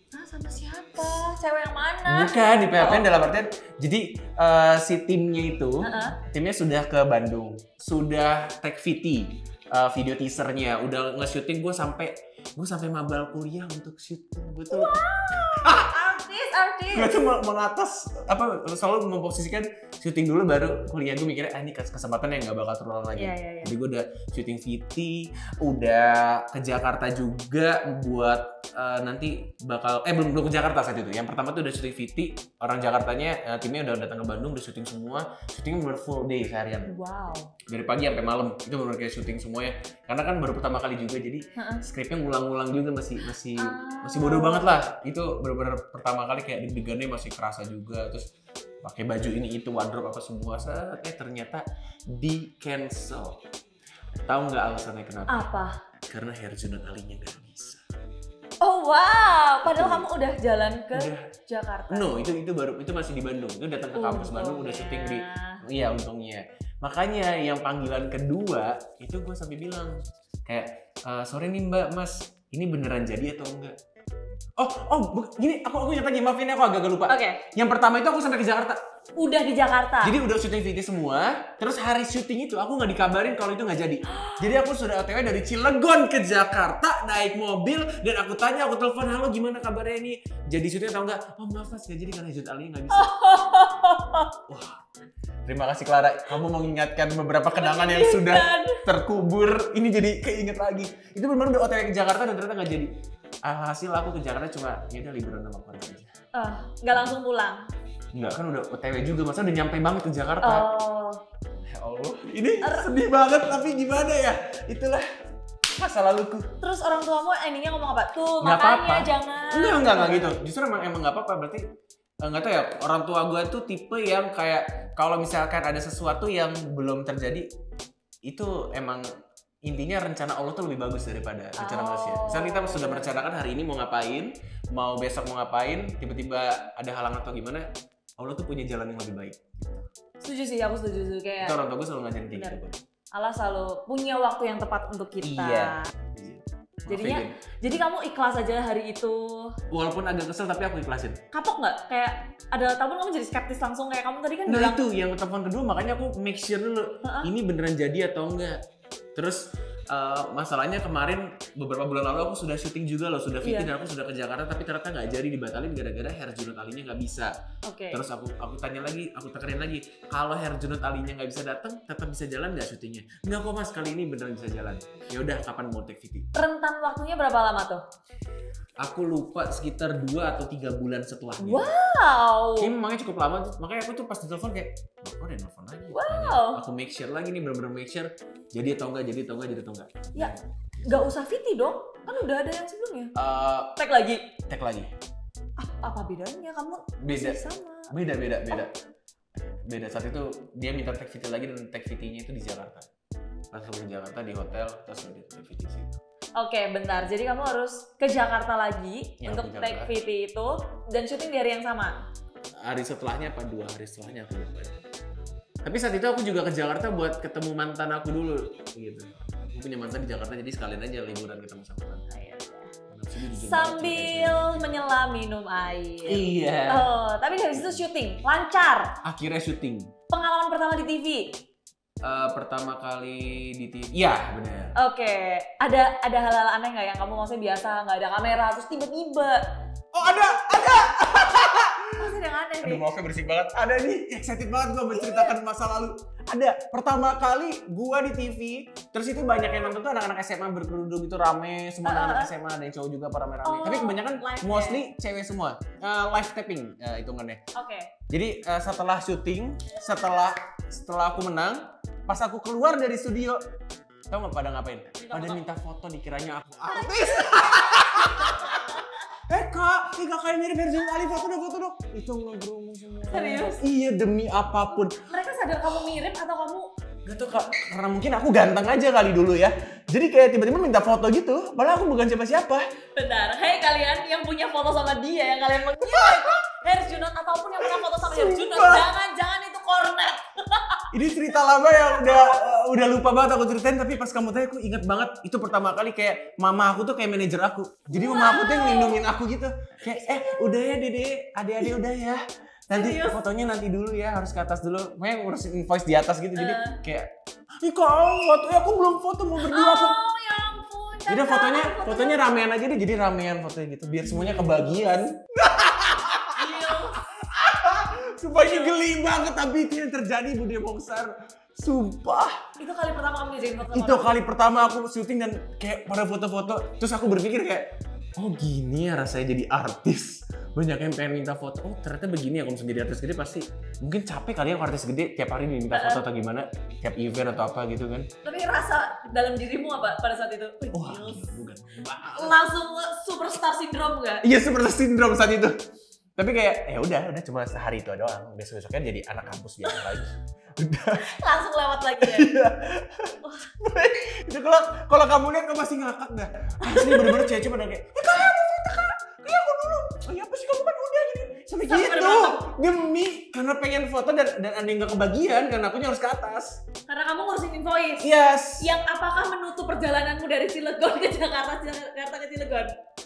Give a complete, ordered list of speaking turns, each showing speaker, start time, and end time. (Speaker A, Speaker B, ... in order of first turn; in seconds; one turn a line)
Speaker A: 0.1-3.1
Speaker B: 2.0-16.1
Speaker A: 5.8-6.2
Speaker A: 14.7-17.2
Speaker B: 16.9-36.9
Speaker A: 23.1-23.7
Speaker A: 36.9-37.5
Speaker B: 37.7-48.2
Speaker A: 41.5-41.9
Speaker A: 43.5-44.7
Speaker B: 48.8-53.4
Speaker B: 54.2-55.4
Speaker A: 55.3-55.8
Speaker B: 56.1-57.8
Speaker A: 58.6-62.2
Speaker B: 59.6-60.1
Speaker B: 60.9-61.3
Speaker B: 61.9-69.9
Speaker A: 63.9-65.6
Speaker B: 70.5-73.8
Speaker B: 74.6-78.8
Speaker A: 77.1-77.4
Speaker A: 79.2-80.2
Speaker B: 80.0-93.1
Speaker A: 84.0-84.5
Speaker A: 92.9-94.3
Speaker B: 94.5-94.8
Speaker B: 95.5-102.9
Speaker A: 97.5-98.9
Speaker B: 103.4-106.1
Speaker A: 106.3-107.7
Speaker B: 108.1-110.7
Speaker A: 110.4-111.2
Speaker B: 111.7-115.0
Speaker A: 112.6-112.9
Speaker B: 115.8-116.5
Speaker A: 116.6-120.3
Speaker B: 118.4-121.6
Speaker B: 122.2-127.5
Speaker B: 128.2-129.0
Speaker B: 129.6-137.7
Speaker A: 131.6-133.2
Speaker B: 138.2-139.9
Speaker A: 140.2-141.6
Speaker B: 141.4-142.8
Speaker A: 142.3-145.9
Speaker B: 145.2-147.8
Speaker A: 146.9-149.6
Speaker B: 149.7-151.2
Speaker A: 151.3-154.8
Speaker B: 154.5-158.6
Speaker A: 157.0-157.3
Speaker B: 159.1-167.3
Speaker A: 163.4-163.7
Speaker A: 167.6-168.0
Speaker B: 167.9-176.3
Speaker A: 176.3-177.8
Speaker B: 178.8-181.7
Speaker A: 181.4-182.7
Speaker B: 182.6-191.1
Speaker A: 185.9-186.6
Speaker A: 190.1-193.1
Speaker B: 193.2-193.8
Speaker A: 193.8-194.3
Speaker B: 194.5-194.9
Speaker A: 195.6-198.0
Speaker B: 197.0-198.7
Speaker B: 199.7-202.9
Speaker B: 203.5-206.0
Speaker A: 206.4-211.9
Speaker B: 209.2-209.9
Speaker B: 212.6-214.8
Speaker B: 215.6-222.1
Speaker A: 222.1-222.7
Speaker B: 222.9-224.6
Speaker A: 223.2-228.9
Speaker B: 226.0-226.9
Speaker B: 227.5-227.8
Speaker B: 229.0-229.9
Speaker A: 230.1-231.4
Speaker B: 232.0-234.8
Speaker A: 234.8-239.4
Speaker B: 239.9-257.4
Speaker A: 240.0-241.2
Speaker A: 242.0-242.9
Speaker A: 244.9-245.3
Speaker A: 251.8-252.3
Speaker A: 253.4-254.8
Speaker A: 257.5-257.9
Speaker B: 258.1-263.4
Speaker B: 264.1-275.0
Speaker A: 265.0-265.4
Speaker A: 266.7-269.0
Speaker A: 273.1-273.6
Speaker A: 274.7-276.7
Speaker B: 277.0-282.6
Speaker A: 282.9-290.9
Speaker B: 285.8-286.4
Speaker B: 287.6-288.9
Speaker B: 290.9-310.0
Speaker A: 291.5-292.4
Speaker A: 297.9-299.0
Speaker A: 299.9-300.6
Speaker A: 302.7-303.2
Speaker A: 306.4-306.8
Speaker A: 309.4-312.3
Speaker B: 311.1-322.4
Speaker A: 316.3-317.0
Speaker A: 318.3-318.8
Speaker A: 322.6-324.1
Speaker B: 323.7-338.1
Speaker A: 335.7-336.0
Speaker A: 338.2-341.3
Speaker B: 340.7-342.4
Speaker A: 342.1-344.3
Speaker B: 344.2-345.5
Speaker B: 346.1-351.1
Speaker A: 349.6-350.0
Speaker A: 351.0-352.4
Speaker B: 352.0-366.6
Speaker A: 353.2-353.5
Speaker A: 356.6-357.3
Speaker A: 361.7-362.4
Speaker A: 366.9-368.1
Speaker B: 368.0-368.8
Speaker A: 368.6-372.7